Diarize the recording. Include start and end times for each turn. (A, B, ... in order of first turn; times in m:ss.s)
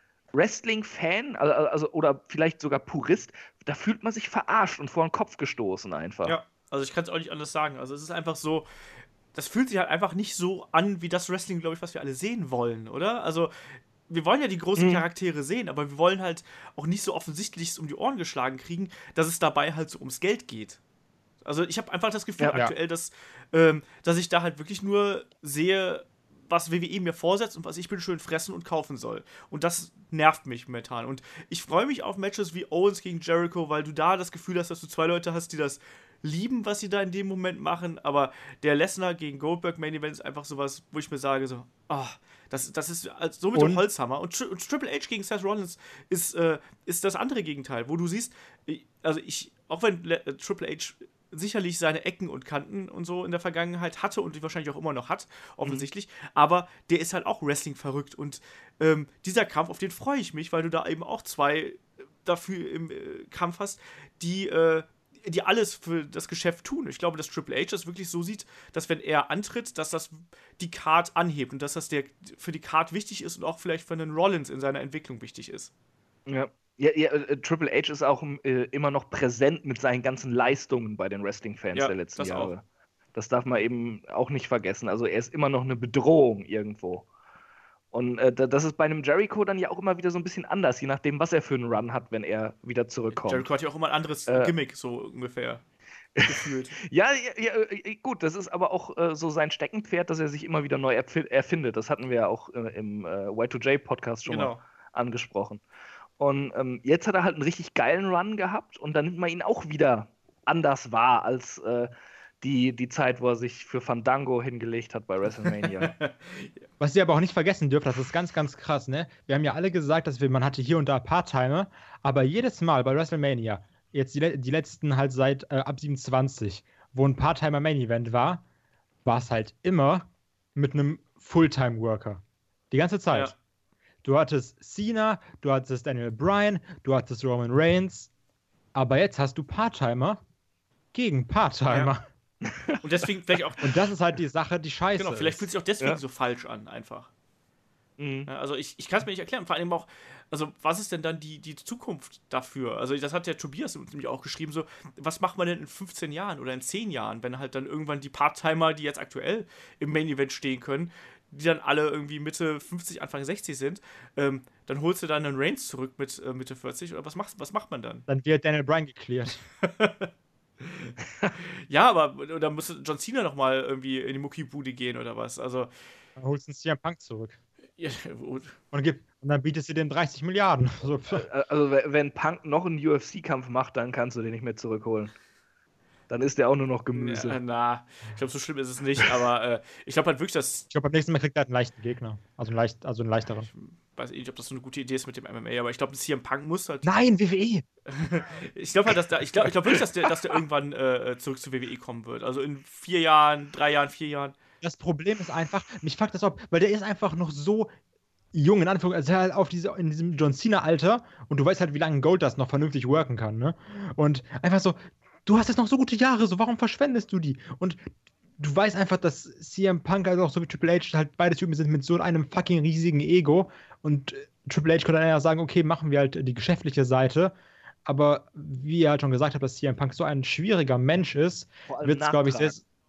0:00.3-0:06.4 A
0:06.2-0:08.7 B
0:09.3-0:20.8 B
0:14.8-0:15.0 A
0:21.4-1:15.7 B
0:43.5-0:43.8 C
1:16.3-1:22.6 A
1:21.7-1:22.5 B
1:23.2-1:27.1 A
1:27.9-1:33.5 A
1:33.1-1:35.6 B
1:34.3-1:34.5 A
1:36.2-1:45.6 A
1:36.2-1:36.8 B
1:44.3-1:44.6 B
1:46.2-1:51.9 A
1:52.4-1:55.9 A
1:55.5-1:56.5 B
1:56.8-2:08.4 C
2:09.0-2:13.3 C
2:14.0-2:18.1 C
2:18.7-2:20.2 C
2:20.9-2:22.0 C
2:22.4-2:22.8 A
2:22.8-2:23.7 B
2:23.6-2:25.5 C
2:25.0-2:27.1 B
2:28.0-2:28.3 A
2:28.3-2:48.0 B
2:48.1-2:49.4 C
2:49.6-2:55.7 B
2:56.2-2:57.4 C
2:57.8-2:58.6 B
2:58.7-3:01.3 C
3:01.1-3:05.1 A
3:06.1-3:07.4 A
3:06.9-3:10.7 B
3:10.7-3:13.5 C
3:13.5-3:16.9 B
3:16.8-3:17.6 C
3:17.9-3:24.4 B
3:24.6-3:27.7 C
3:28.3-3:47.3 C
3:47.9-3:52.6 C
3:51.7-3:52.6 A